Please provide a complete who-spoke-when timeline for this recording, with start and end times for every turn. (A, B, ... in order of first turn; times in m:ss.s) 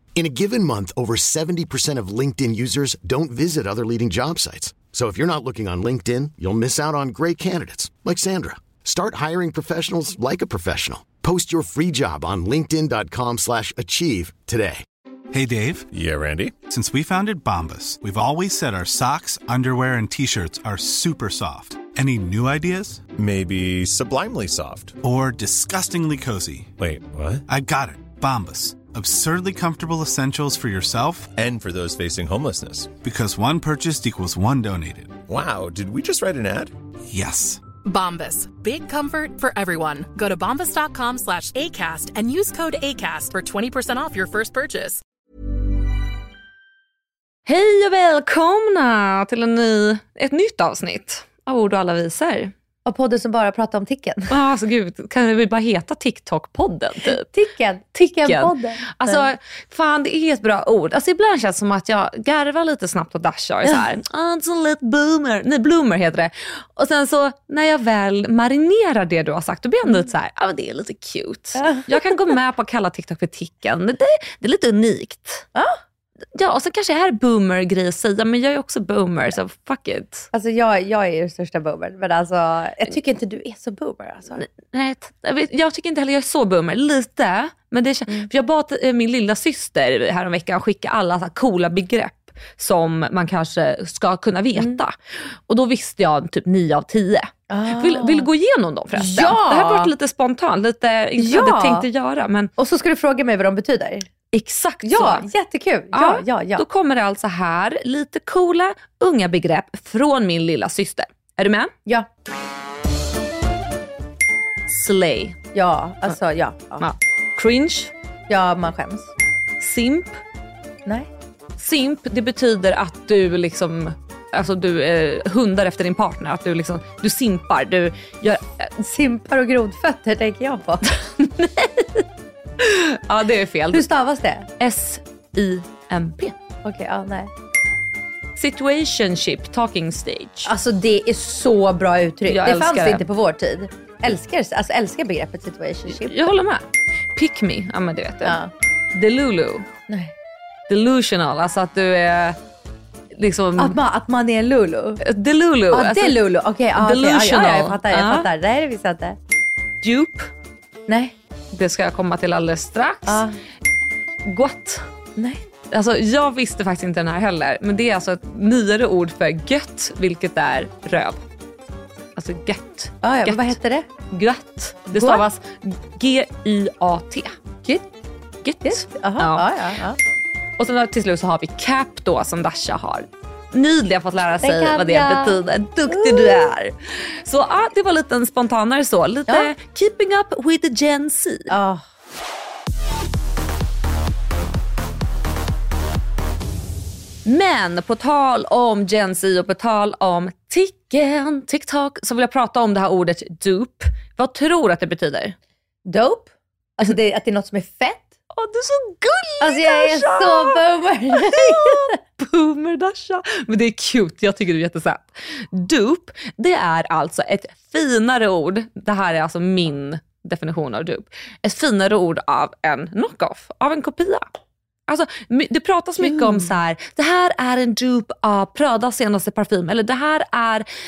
0:00.2-0:14.8 A
0:15.3-0:15.9 B
0:15.9-0:16.6 C
0:16.7-0:23.1 B
0:23.2-0:25.0 C
0:25.0-0:26.7 B
0:26.8-0:27.4 C
0:27.5-0:31.3 B
0:31.3-0:32.9 C
0:33.0-0:35.2 B
0:35.3-0:36.7 C
0:37.1-0:37.6 B
0:37.8-0:45.0 D
0:47.5-0:52.5 E
0:52.8-0:54.3 F
0:54.3-0:57.3 E
0:57.1-0:59.3 F
0:58.0-1:15.5 E
1:11.6-1:12.3 F
1:16.4-1:20.3 E
1:20.3-1:24.4 F
1:24.4-1:42.5 E
1:37.5-1:38.3 F
1:39.0-1:39.9 F
1:41.2-1:41.9 F
1:42.6-1:44.1 F
1:44.3-1:45.2 E
1:44.8-1:46.6 F
1:45.9-1:51.7 E
1:54.7-1:55.4 E
1:55.5-1:56.9 F
1:56.8-1:57.9 E
1:58.3-1:59.1 F
1:59.6-2:00.2 E
2:01.6-2:08.7 E
2:08.8-2:10.9 F
2:11.2-2:12.0 E
2:12.6-2:13.9 E
2:13.7-2:14.5 F
2:14.6-2:16.4 E
2:16.6-2:17.3 F
2:18.4-2:20.5 E
2:20.4-2:26.3 F
2:22.3-2:23.0 E
2:25.9-2:26.6 E
2:27.2-2:28.4 E
2:28.2-2:28.5 F
2:28.9-2:29.7 E
2:29.9-2:30.1 F
2:30.7-2:32.4 E
2:33.2-2:33.8 E
2:33.6-2:35.0 F
2:35.0-2:36.2 E
2:35.7-2:39.2 F
2:36.8-2:38.3 E
2:39.8-2:40.3 E
2:40.9-2:41.2 F
2:41.5-2:43.2 E
2:43.1-2:43.4 F
2:44.3-2:44.8 E
2:45.2-2:45.4 F
2:45.7-2:51.2 E
2:52.2-2:53.6 E
2:53.0-2:53.9 F
2:54.1-2:57.3 E
2:54.9-2:55.2 F
2:58.4-2:59.5 E
2:58.6-3:00.0 F
3:00.6-3:11.5 E
3:04.4-3:06.5 F
3:11.5-3:11.8 F
3:17.2-3:25.4 E
3:25.8-3:28.2 F
3:28.3-3:44.3 E
3:29.4-3:32.0 F
3:44.9-3:50.7 E
3:46.0-3:46.6 F